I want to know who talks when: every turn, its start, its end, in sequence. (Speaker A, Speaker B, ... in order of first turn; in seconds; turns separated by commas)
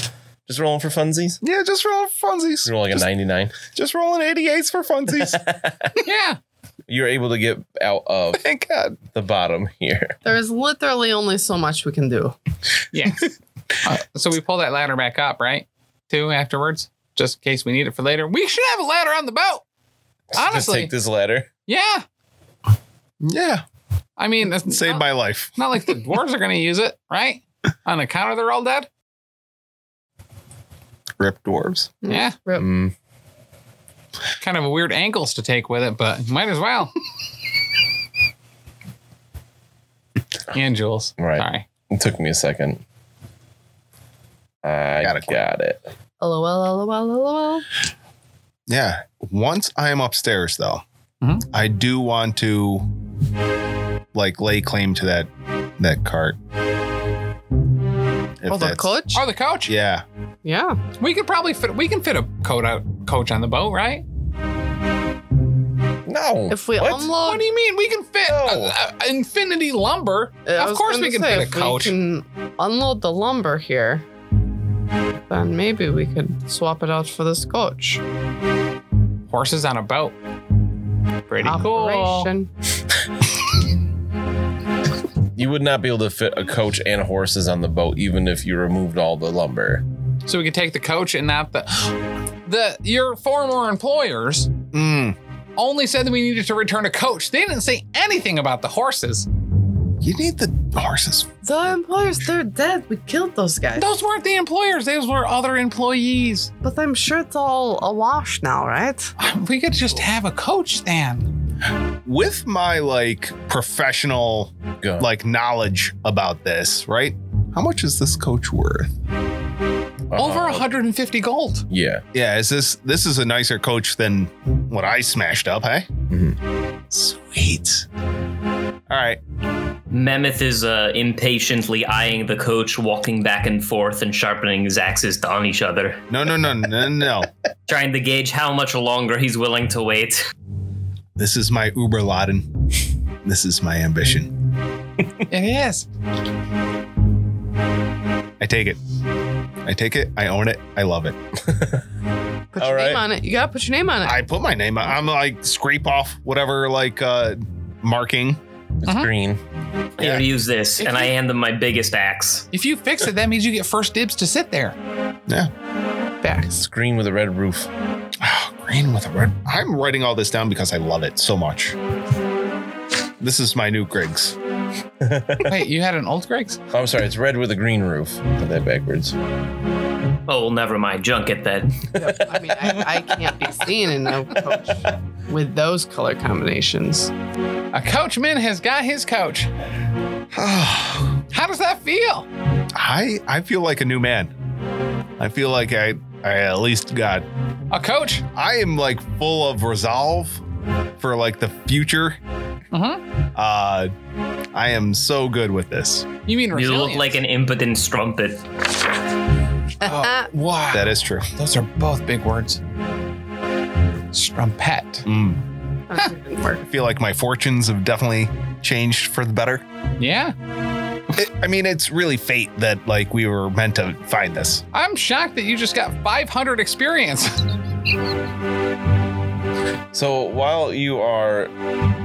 Speaker A: 0.5-1.4, Speaker B: 1.4-3.1, Speaker A: 2.6-3.6, Speaker B: 3.6-5.4, Speaker A: 5.3-6.0, Speaker C: 6.0-6.4, Speaker A: 6.9-8.4, Speaker B: 8.4-9.0, Speaker A: 9.1-10.2, Speaker D: 10.2-12.4, Speaker C: 12.9-13.3, Speaker C: 13.8-19.6, Speaker A: 20.3-21.5, Speaker C: 20.3-20.9, Speaker C: 21.7-22.0, Speaker B: 23.2-23.6, Speaker C: 24.2-28.9, Speaker B: 24.6-25.6, Speaker B: 31.2-31.9, Speaker D: 32.0-32.7, Speaker C: 32.1-32.4, Speaker A: 32.6-32.9, Speaker C: 34.4-37.0, Speaker C: 40.5-41.7, Speaker A: 41.2-42.8, Speaker A: 44.6-45.8, Speaker B: 45.0-45.4, Speaker D: 46.2-47.7, Speaker B: 48.7-50.8, Speaker C: 51.2-51.5, Speaker B: 51.5-52.9, Speaker B: 54.1-56.4, Speaker B: 58.4-59.0, Speaker D: 58.5-59.3, Speaker C: 59.1-59.8, Speaker B: 59.7-60.0, Speaker D: 60.4-60.8, Speaker C: 61.0-64.0, Speaker A: 66.1-67.1, Speaker D: 66.5-67.5, Speaker C: 67.1-71.9, Speaker A: 68.2-68.8, Speaker D: 70.5-74.0, Speaker D: 75.3-78.0, Speaker C: 79.3-80.2, Speaker C: 81.3-82.3, Speaker D: 81.4-82.5, Speaker A: 85.4-89.8, Speaker C: 90.3-94.5, Speaker B: 94.7-95.2, Speaker C: 95.6-99.3, Speaker B: 100.0-101.3, Speaker D: 101.4-103.9, Speaker C: 103.8-106.5, Speaker D: 106.6-109.1, Speaker C: 109.2-111.3, Speaker B: 112.0-118.9, Speaker A: 114.8-115.1, Speaker A: 120.1-120.7, Speaker C: 120.1-121.7, Speaker A: 121.7-122.0, Speaker B: 122.1-125.9, Speaker A: 126.1-126.4, Speaker B: 126.9-127.9, Speaker B: 128.9-129.2, Speaker E: 129.9-136.0, Speaker B: 136.1-137.3, Speaker E: 137.7-140.2, Speaker B: 141.2-142.5, Speaker B: 143.2-144.3, Speaker C: 145.3-145.9, Speaker B: 148.4-148.8, Speaker B: 149.7-151.2, Speaker A: 151.4-151.8, Speaker D: 152.5-154.2, Speaker A: 152.6-153.0, Speaker B: 154.0-158.4, Speaker A: 158.8-159.4, Speaker E: 160.0-162.5, Speaker B: 160.0-160.2, Speaker C: 160.8-161.1, Speaker C: 162.5-164.8, Speaker D: 166.2-166.6, Speaker A: 166.6-167.7, Speaker B: 168.2-171.8, Speaker B: 173.2-174.4, Speaker A: 175.0-175.6, Speaker C: 175.4-176.6, Speaker A: 176.7-179.2, Speaker E: 180.3-181.9, Speaker D: 181.9-187.1, Speaker C: 187.7-189.5, Speaker B: 190.3-191.2, Speaker C: 191.3-192.3, Speaker B: 192.8-194.3, Speaker B: 195.2-197.2, Speaker C: 197.7-198.3, Speaker B: 198.3-200.4, Speaker B: 201.0-202.2, Speaker C: 202.7-203.0, Speaker B: 203.3-203.9, Speaker B: 204.5-206.1, Speaker C: 206.3-207.2, Speaker E: 206.5-208.4, Speaker D: 209.8-210.3, Speaker C: 209.8-210.1, Speaker A: 210.3-210.8, Speaker B: 210.7-211.3, Speaker C: 211.4-212.6, Speaker C: 214.1-215.1, Speaker B: 215.1-215.4, Speaker D: 215.9-216.7, Speaker B: 216.7-219.6, Speaker C: 220.0-220.3, Speaker B: 221.1-224.6, Speaker C: 224.7-227.5, Speaker A: 229.9-231.5